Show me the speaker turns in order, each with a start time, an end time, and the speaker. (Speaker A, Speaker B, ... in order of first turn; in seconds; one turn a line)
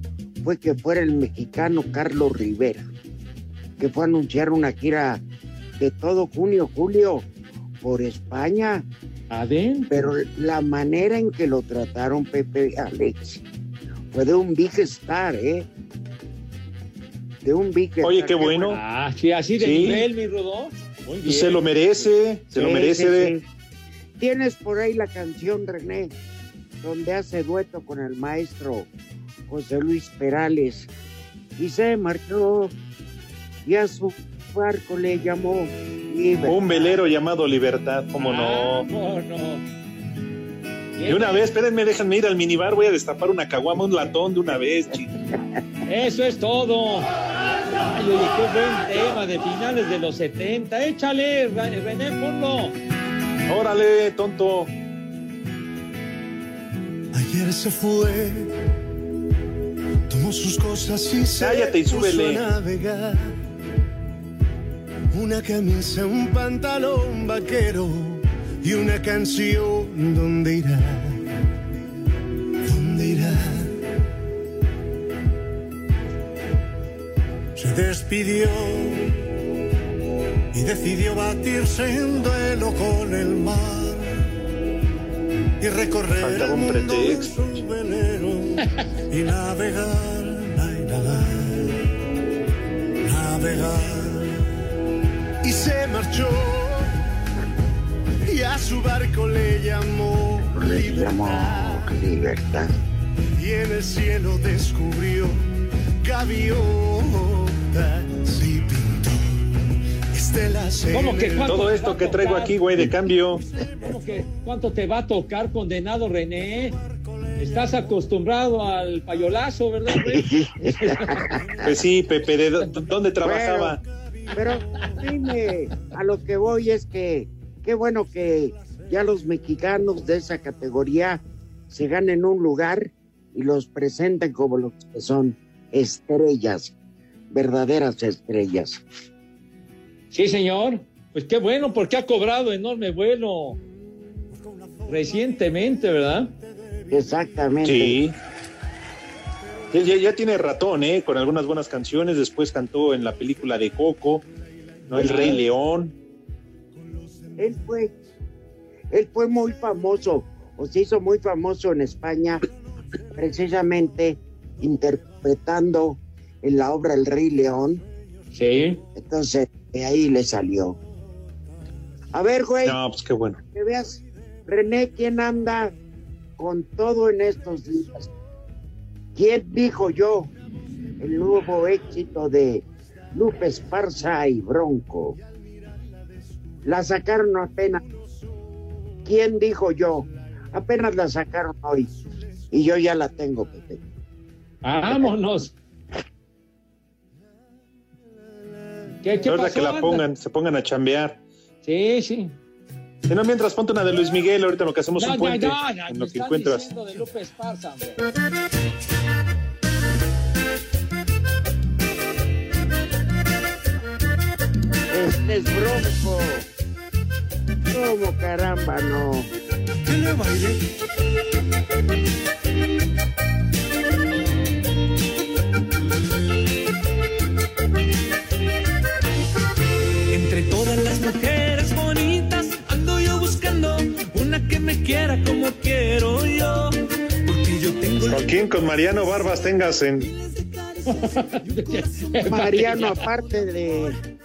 Speaker A: 0.4-2.9
Speaker A: 3.8-5.2
Speaker A: 5.8-7.3
Speaker A: 7.8-8.9
Speaker B: 9.3-9.9
Speaker A: 9.9-13.4
Speaker A: 14.1-15.7
Speaker A: 17.4-18.7
Speaker C: 18.0-18.8
Speaker B: 18.6-21.6
Speaker C: 19.6-20.1
Speaker C: 21.3-23.3
Speaker A: 22.5-23.4
Speaker A: 24.2-26.1
Speaker A: 26.8-28.9
Speaker A: 29.5-30.9
Speaker A: 31.6-32.7
Speaker A: 33.6-36.6
Speaker C: 36.5-38.9
Speaker B: 38.2-39.6
Speaker B: 41.0-41.4
Speaker C: 41.1-45.1
Speaker B: 45.9-47.1
Speaker B: 47.7-52.8
Speaker C: 53.5-54.7
Speaker D: 57.1-58.5
Speaker D: 60.1-63.4
Speaker C: 61.4-62.5
Speaker D: 65.1-71.2
Speaker D: 72.7-73.7
Speaker D: 77.6-79.1
Speaker D: 80.5-84.1
Speaker D: 85.6-91.7
Speaker C: 86.2-87.6
Speaker D: 93.0-94.4
Speaker D: 95.4-96.9
Speaker D: 98.2-102.0
Speaker A: 100.5-102.7
Speaker D: 103.4-105.4
Speaker D: 106.0-109.5
Speaker D: 110.1-111.6
Speaker B: 110.9-112.6
Speaker C: 111.5-113.4
Speaker B: 113.8-116.8
Speaker D: 117.0-117.8
Speaker B: 117.4-121.2
Speaker A: 119.9-121.7
Speaker C: 121.7-123.8
Speaker A: 123.2-123.8
Speaker A: 124.3-136.7
Speaker A: 137.3-138.8
Speaker B: 140.1-143.6
Speaker D: 144.3-145.2
Speaker B: 144.9-146.3
Speaker A: 146.9-148.0
Speaker C: 147.6-148.2
Speaker C: 149.7-154.2
Speaker C: 154.9-155.9
Speaker A: 154.9-155.4
Speaker B: 155.0-155.4
Speaker D: 156.9-157.3
Speaker A: 157.4-157.9
Speaker A: 158.9-162.4
Speaker A: 163.1-167.8
Speaker B: 168.3-168.8
Speaker A: 168.9-170.8
Speaker A: 172.1-172.8
Speaker C: 172.7-173.4
Speaker A: 173.5-175.7
Speaker A: 176.4-178.1
Speaker A: 179.2-180.3
Speaker A: 181.0-185.2
Speaker A: 186.7-187.8
Speaker A: 189.1-191.9
Speaker A: 192.5-193.8
Speaker B: 194.6-195.5
Speaker B: 199.0-200.0
Speaker C: 199.3-201.2
Speaker B: 201.6-202.3
Speaker C: 203.1-206.7
Speaker B: 205.0-208.0
Speaker A: 214.9-216.4
Speaker A: 217.7-219.3
Speaker D: 219.9-220.6
Speaker E: 230.1-238.3
Speaker C: 238.1-240.1
Speaker B: 240.9-243.1
Speaker A: 242.2-244.0